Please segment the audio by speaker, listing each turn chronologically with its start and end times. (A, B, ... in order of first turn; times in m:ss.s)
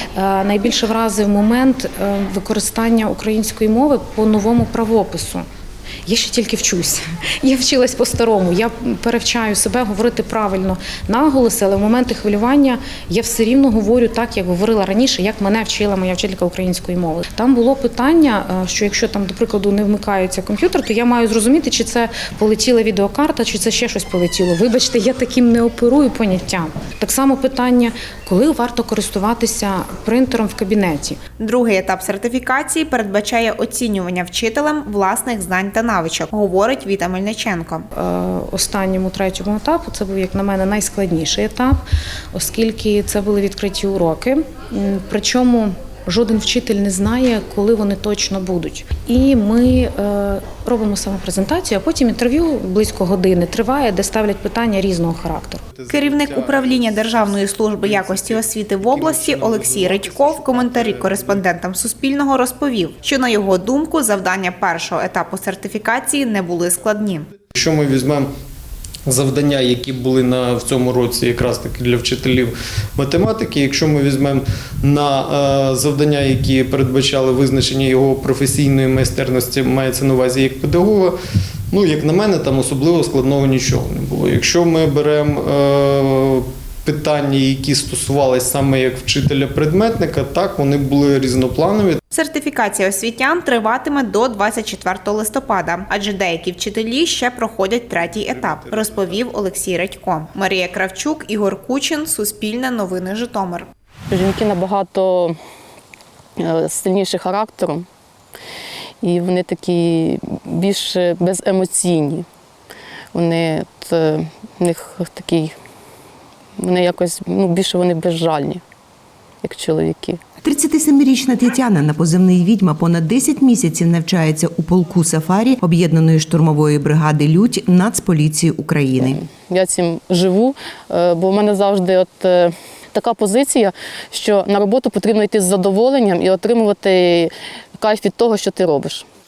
0:00.2-0:05.4 A
0:06.1-0:31.2 A
0:31.4-0:37.9 B
0:38.0-0:41.8 A
0:42.3-0:55.6 A
0:55.8-1:01.4 C
0:55.9-1:07.3 B
1:07.5-1:08.3 C
1:09.1-1:21.1 C
1:21.7-1:32.0 C
1:32.1-1:43.7 B
1:38.3-1:39.2 C
1:44.1-1:45.4 D
1:46.4-1:47.8 D
1:49.0-1:52.3 D
1:53.1-1:55.5 D
1:56.6-1:58.6 D
1:59.4-2:00.2 D
2:00.4-2:09.2 E
2:09.0-2:19.0 D